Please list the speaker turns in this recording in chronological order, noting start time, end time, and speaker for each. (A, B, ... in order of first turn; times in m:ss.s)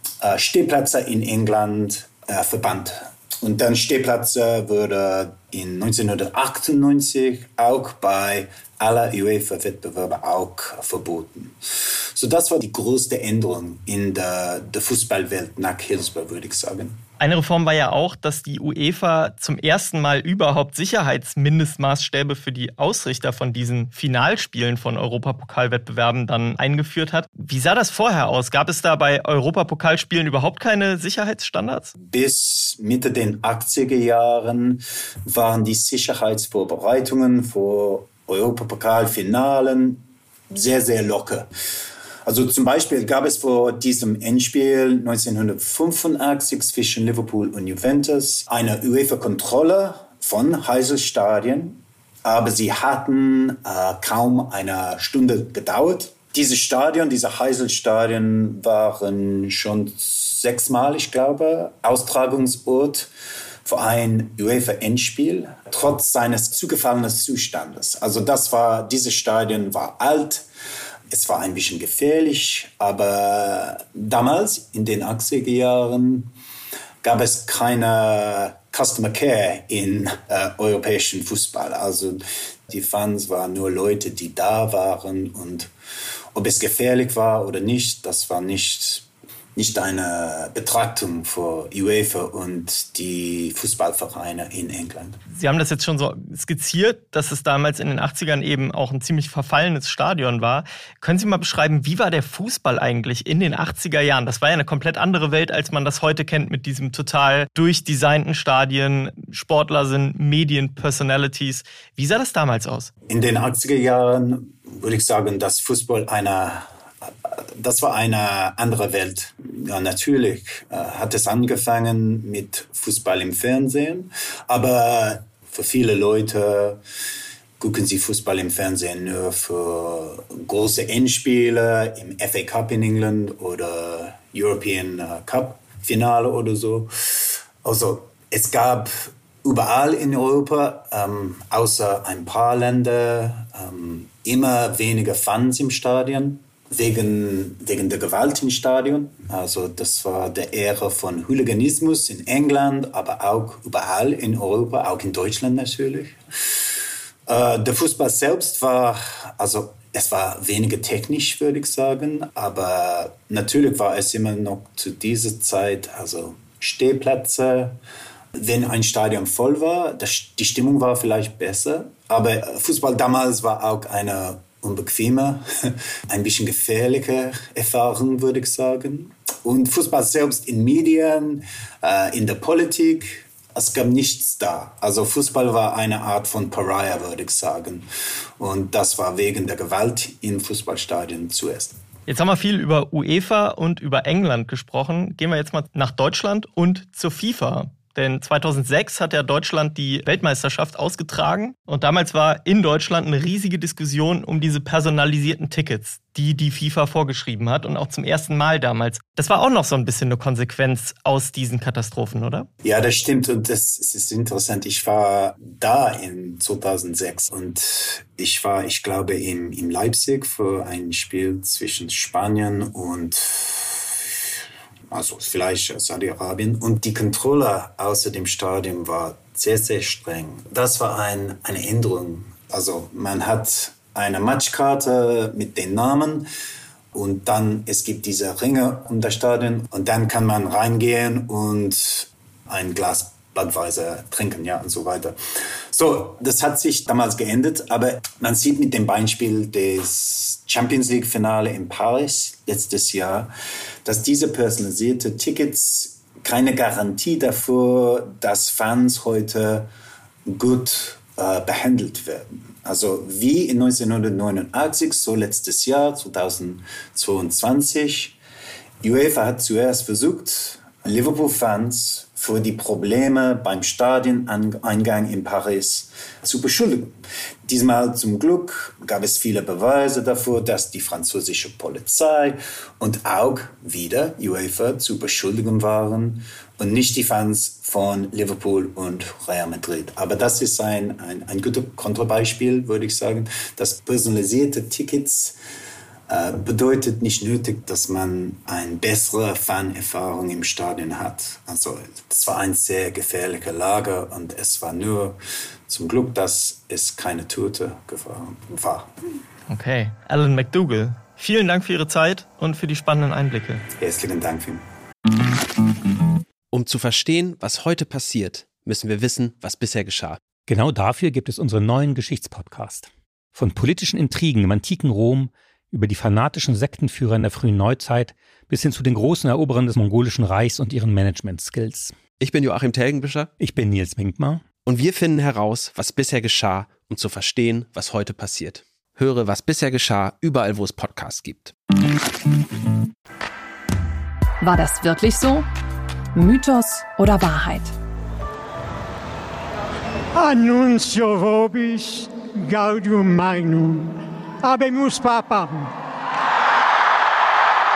0:00.2-0:17.0 A
0:17.2-0:31.9 B
0:32.1-0:41.5 A
0:42.2-1:03.1 A
1:03.6-1:10.4 A
1:11.1-1:16.3 A
1:17.0-1:25.7 A
1:26.3-1:35.2 A
1:35.3-1:52.9 B
1:53.1-2:06.8 A
2:07.6-2:36.6 A
2:37.3-2:47.8 A
2:48.3-3:07.8 A
3:08.4-3:11.8 A
3:12.1-3:32.5 B
3:32.6-3:44.2 A
3:44.9-3:56.3 A
3:56.9-4:05.2 A
4:05.7-4:13.3 A
4:13.8-4:19.7 A
4:20.3-4:28.2 A
4:28.8-4:36.9 A
4:37.5-4:55.4 A
4:56.1-5:05.2 A
5:05.7-5:08.9 A
5:09.5-5:13.6 B
5:13.8-5:14.6 A
5:16.5-5:20.2 C
5:20.4-5:32.0 D
5:32.2-5:33.3 C
5:33.4-5:34.5 D
5:34.5-5:41.5 C
5:44.4-5:45.4 E
5:46.1-5:47.7 E
5:50.1-5:55.7 F